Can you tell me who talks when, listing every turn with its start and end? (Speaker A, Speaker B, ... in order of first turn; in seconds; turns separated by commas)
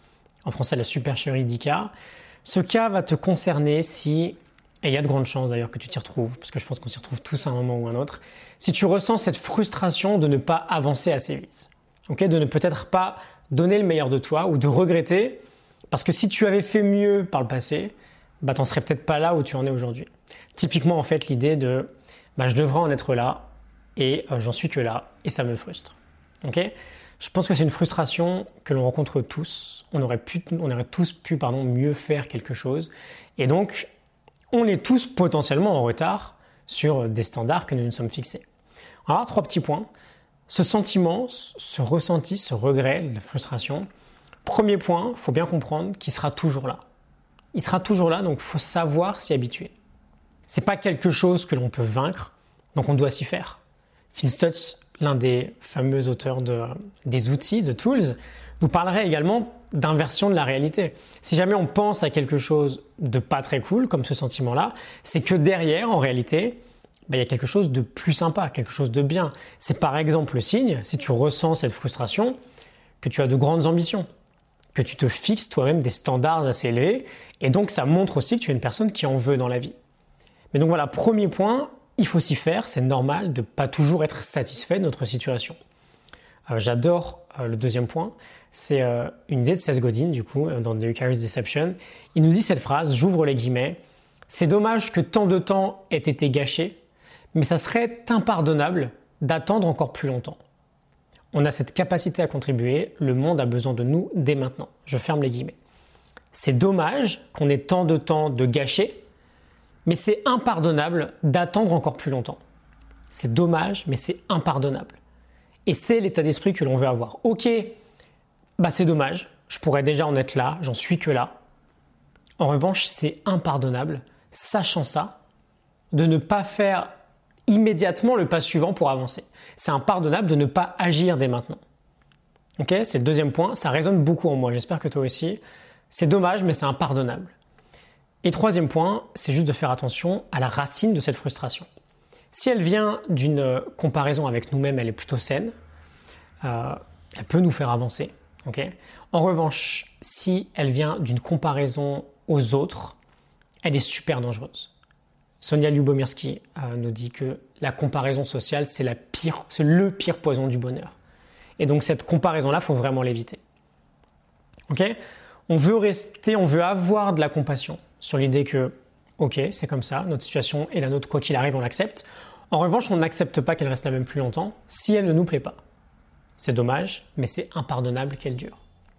Speaker A: 0.5-1.9, Speaker A: 2.5-33.9, Speaker A: 34.5-38.5, Speaker A: 39.0-39.9, Speaker A: 40.5-43.9, Speaker A: 44.4-46.8, Speaker A: 47.5-49.7, Speaker A: 50.5-53.6, Speaker A: 54.1-72.4, Speaker A: 73.0-74.1, Speaker A: 74.7-79.7, Speaker A: 80.5-85.6, Speaker A: 86.5-96.8, Speaker A: 97.3-100.4, Speaker A: 101.3-105.5, Speaker A: 106.3-109.0, Speaker A: 109.8-112.4, Speaker A: 113.1-115.0, Speaker A: 115.7-117.8, Speaker A: 118.6-121.4, Speaker A: 122.4-125.2, Speaker A: 125.9-126.9, Speaker A: 127.5-131.6, Speaker A: 132.6-137.3, Speaker A: 138.2-141.7, Speaker A: 142.3-145.6, Speaker A: 146.4-153.0, Speaker A: 153.6-154.7, Speaker A: 155.4-161.0, Speaker A: 161.6-163.4, Speaker A: 164.7-165.0, Speaker A: 165.5-175.6, Speaker A: 176.4-178.6